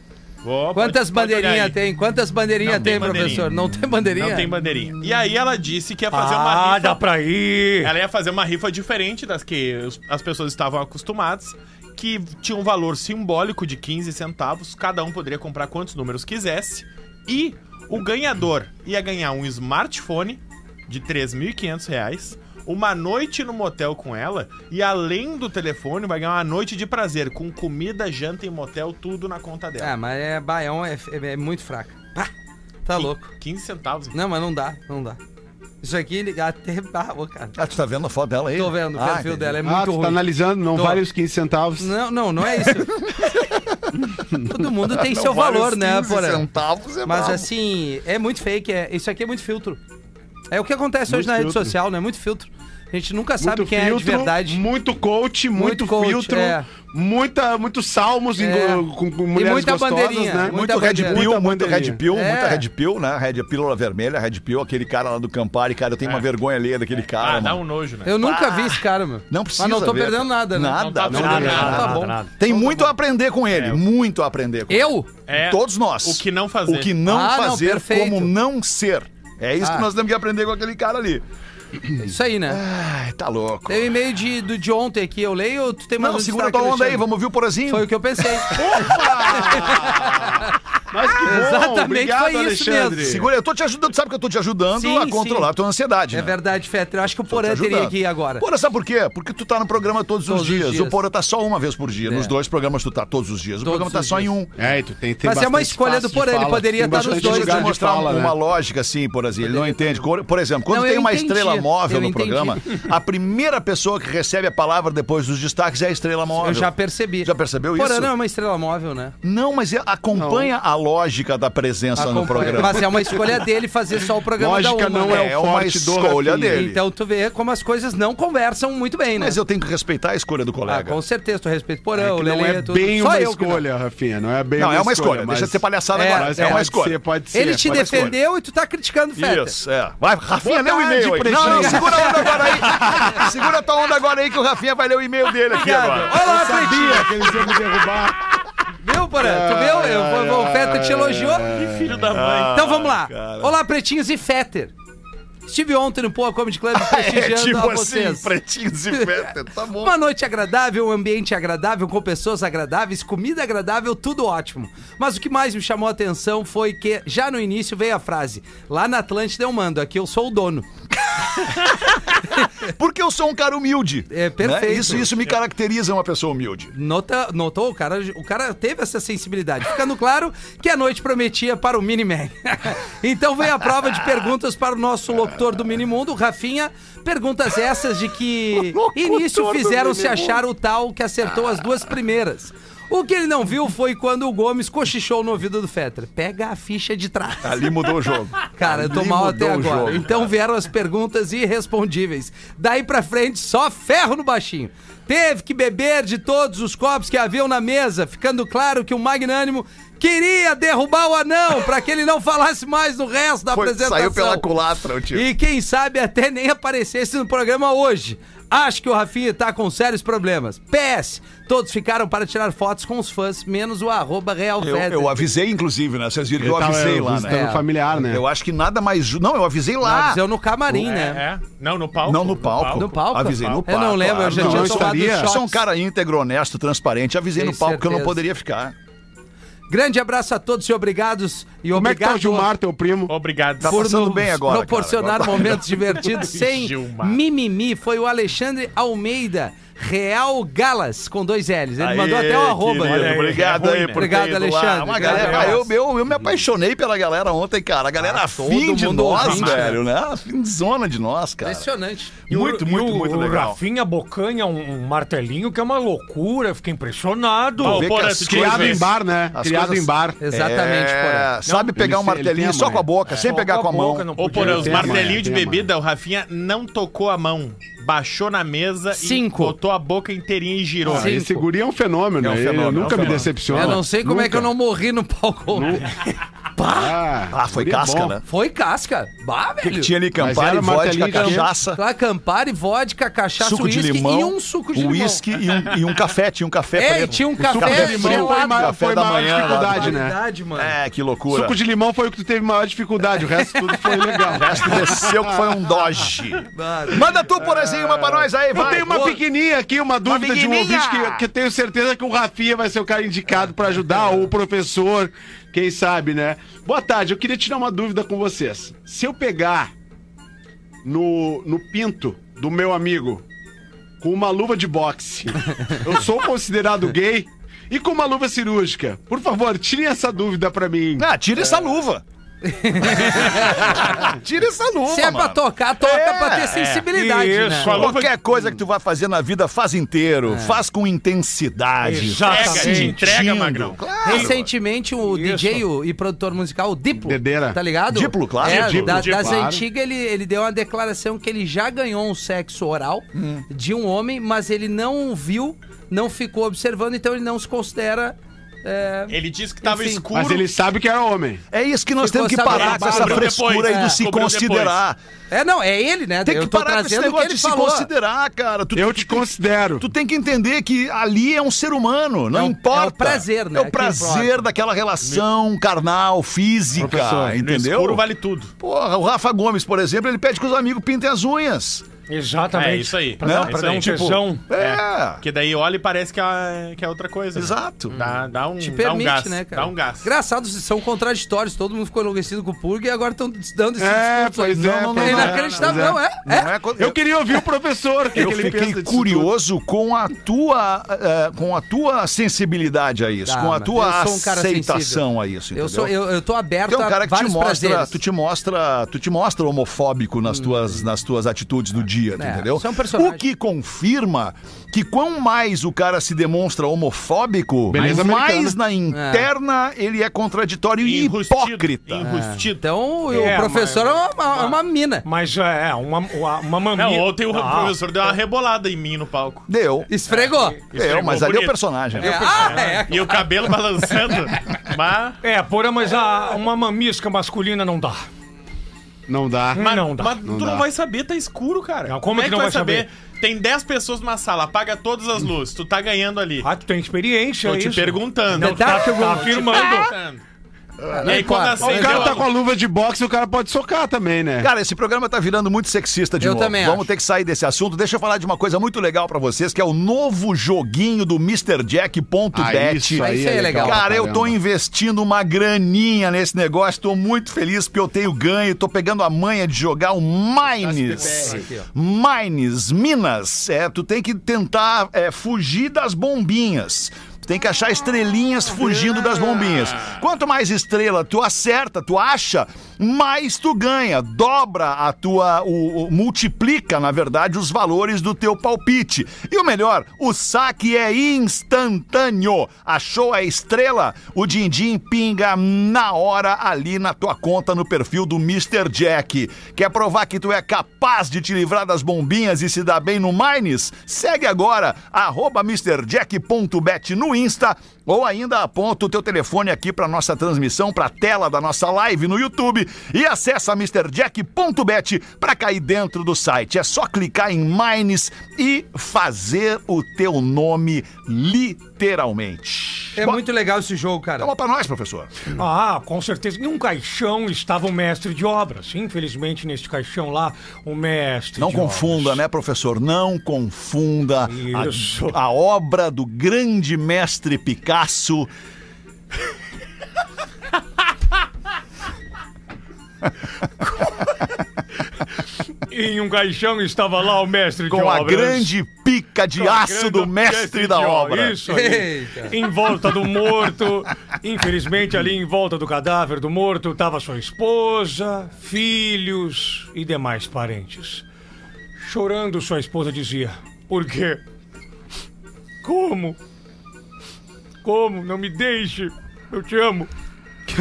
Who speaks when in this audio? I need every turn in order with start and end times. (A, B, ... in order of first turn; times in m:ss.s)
0:00.4-0:01.8 A
0:00.7-0:04.5 B
0:02.6-0:03.5 A
0:02.8-0:05.1 C
0:04.2-0:07.0 A
0:06.1-0:07.9 D
0:07.8-0:29.9 A
0:29.8-0:32.3 B
0:32.8-0:33.3 B
0:32.9-0:34.2 A
0:34.1-0:35.2 B
0:35.8-0:37.6 B
0:37.5-0:39.6 C
0:38.5-0:41.0 B
0:39.6-0:41.9 E
0:41.8-0:43.0 B
0:42.6-0:44.0 C
0:44.4-0:46.4 B
0:44.9-0:47.5 C
0:47.0-0:49.8 B
0:50.5-0:54.6 B
0:51.1-0:51.7 E
0:53.4-1:02.0 E
0:55.5-0:56.6 B
0:58.4-1:01.3 B
1:00.4-1:07.6 C
1:02.1-1:02.7 B
1:06.0-1:06.3 A
1:07.2-1:08.1 A
1:08.0-1:12.8 B
1:08.2-1:21.2 C
1:10.8-1:12.0 A
1:11.1-1:12.3 D
1:11.1-1:11.8 E
1:13.5-1:13.8 A
1:14.7-1:15.1 B
1:15.3-1:16.9 A
1:17.0-1:18.3 B
1:19.6-1:19.9 B
1:22.0-1:22.6 B
1:22.5-1:23.9 C
1:23.7-1:27.1 B
1:26.0-1:30.1 C
1:27.7-1:30.6 B
1:28.5-1:33.2 E
1:31.2-1:33.0 B
1:33.0-1:36.4 C
1:34.7-1:35.5 B
1:36.1-1:38.4 B
1:37.3-1:44.5 C
1:40.3-1:41.0 B
1:42.0-1:42.3 B
1:43.6-1:44.3 B
1:44.6-1:48.3 E
1:45.2-1:47.7 B
1:47.0-1:58.1 C
1:49.4-1:50.0 B
1:50.7-1:52.7 B
1:56.4-1:59.1 B
1:59.2-2:03.4 C
2:00.2-2:00.5 E
2:01.9-2:05.3 B
2:04.4-2:06.6 E
2:05.0-2:06.8 C
2:06.5-2:09.4 B
2:09.2-2:11.0 C
2:10.6-2:13.6 B
2:11.9-2:18.1 E
2:14.6-2:17.0 C
2:15.9-2:16.6 B
2:17.3-2:19.5 B
2:17.6-2:18.2 C
2:19.2-2:26.3 C
2:20.4-2:23.3 E
2:21.3-2:23.2 B
2:25.5-2:27.4 B
2:26.1-2:28.3 E
2:28.8-2:31.5 B
2:29.2-2:32.0 E
2:31.5-2:32.7 A
2:32.1-2:33.6 C
2:32.5-2:34.7 B
2:35.5-2:38.3 B
2:36.7-2:40.0 C
2:39.8-2:50.7 B
2:51.2-2:56.7 C
2:54.1-2:55.1 B
2:56.7-3:17.7 B
3:08.5-3:10.4 C
3:17.4-3:20.3 C
3:18.5-3:34.5 B
3:33.5-3:35.3 C
3:35.1-3:45.2 B
3:44.6-3:50.2 C
3:46.4-3:48.2 E
3:47.2-3:47.6 B
3:49.8-3:51.2 B
3:50.8-3:53.6 A
3:52.0-3:58.7 C
3:52.7-3:55.6 B
3:54.2-3:55.3 E
3:57.4-3:58.2 B
3:59.7-4:02.5 B
4:01.7-4:03.1 E
4:03.1-4:03.8 A
4:03.6-4:05.6 C
4:03.6-4:13.2 B
4:06.0-4:07.2 A
4:11.8-4:21.7 C
4:12.9-4:13.6 D
4:13.3-4:14.1 A
4:13.9-4:15.7 B
4:15.2-4:15.5 D
4:18.0-4:19.8 B
4:19.2-4:19.7 A
4:21.4-4:22.2 B
4:22.3-4:23.6 C
4:22.3-4:27.9 D
4:27.6-4:28.9 A
4:27.6-4:34.1 C
4:28.2-4:30.2 E
4:30.2-4:31.3 B
4:31.5-4:31.7 D
4:31.7-4:32.9 E
4:33.1-4:35.2 D
4:34.2-4:41.1 A
4:34.3-4:35.7 E
4:38.9-4:39.5 B
4:40.8-4:44.5 E
4:40.8-4:41.5 B
4:42.2-4:43.8 C
4:42.8-4:43.2 A
4:43.5-4:45.9 B
4:45.5-4:45.9 E
4:46.6-4:46.9 B
4:46.7-4:48.2 E
4:47.3-4:48.2 C
4:48.2-4:49.9 B
4:49.6-4:51.8 C
4:50.2-4:51.5 E
4:51.1-4:55.2 B
4:53.4-5:00.0 C
4:56.8-4:58.7 B
4:57.4-5:00.2 E
4:59.5-5:00.7 B
5:00.6-5:01.6 C
5:01.3-5:05.4 E
5:03.4-5:04.6 B
5:04.3-5:09.2 C
5:06.5-5:07.1 B
5:08.5-5:19.7 E
5:10.0-5:11.3 C
5:20.8-5:23.2 E
5:24.0-5:31.1 E
5:31.0-5:32.0 C
5:32.4-5:33.9 B
5:32.8-5:36.6 C
5:34.9-5:37.7 B
5:36.5-5:36.8 A
5:36.9-5:37.9 D
5:37.6-5:38.1 A
5:37.7-5:44.5 C
5:40.3-5:40.6 B
5:41.8-5:43.1 D
5:42.2-5:43.8 A
5:44.0-6:00.0 B
5:45.0-5:45.6 D
5:47.0-5:47.6 E
5:47.9-5:48.8 C
5:48.4-5:49.4 A
5:48.5-5:49.6 E
5:53.1-5:53.4 C
5:59.1-6:00.5 A
6:00.1-6:01.4 E
6:01.5-6:05.0 C
6:02.0-6:04.0 B
6:02.5-6:04.8 A
6:05.3-6:07.9 B
6:06.2-6:18.0 C
6:08.7-6:09.9 E
6:12.3-6:14.5 B
6:16.8-6:17.4 E
6:17.3-6:18.5 A
6:18.6-6:21.9 C
6:22.1-6:24.4 D
6:22.5-6:24.0 A
6:23.2-6:25.2 C
6:24.5-6:30.1 A
6:27.3-6:28.0 C
6:28.6-6:36.5 B
6:33.8-6:36.0 E
6:34.5-6:37.0 C
6:35.2-6:35.6 A
6:36.8-6:39.3 E
6:38.1-6:45.9 C
6:43.3-6:48.0 B
6:46.7-7:02.0 C
6:50.3-6:50.8 B
6:52.2-6:53.2 B
6:57.7-6:58.6 E
6:58.9-6:59.3 B
7:00.8-7:02.6 A
7:02.0-7:05.0 B
7:03.1-7:07.8 D
7:06.7-7:09.5 A
7:09.5-7:09.9 C
7:09.9-7:10.6 B
7:10.2-7:10.6 D
7:10.7-7:12.3 C
7:10.7-7:15.2 A
7:12.0-7:13.3 B
7:12.2-7:12.8 D
7:15.2-7:18.0 D
7:19.1-7:19.6 E
7:19.5-7:20.2 D
7:19.6-7:26.5 A
7:20.2-7:20.6 E
7:21.9-7:22.9 D
7:26.4-7:29.9 D
7:27.4-7:30.2 A
7:28.4-7:29.6 B
7:30.9-7:32.2 B
7:31.0-7:32.3 A
7:31.0-7:34.5 E
7:34.4-8:43.2 C
7:36.2-7:36.9 B
7:42.3-7:44.4 E
7:43.0-7:43.8 B
7:50.6-7:51.7 B
7:51.0-7:51.4 E
8:42.9-8:44.3 B
8:44.2-8:45.2 C
8:45.4-8:52.2 D
8:51.4-8:58.3 C
8:54.3-8:55.2 D
9:05.7-9:08.5 D
9:07.7-9:11.4 C
9:09.4-9:21.0 D
9:11.5-9:12.3 B
9:21.8-9:24.2 D
9:25.6-9:26.2 D
9:27.6-9:29.9 D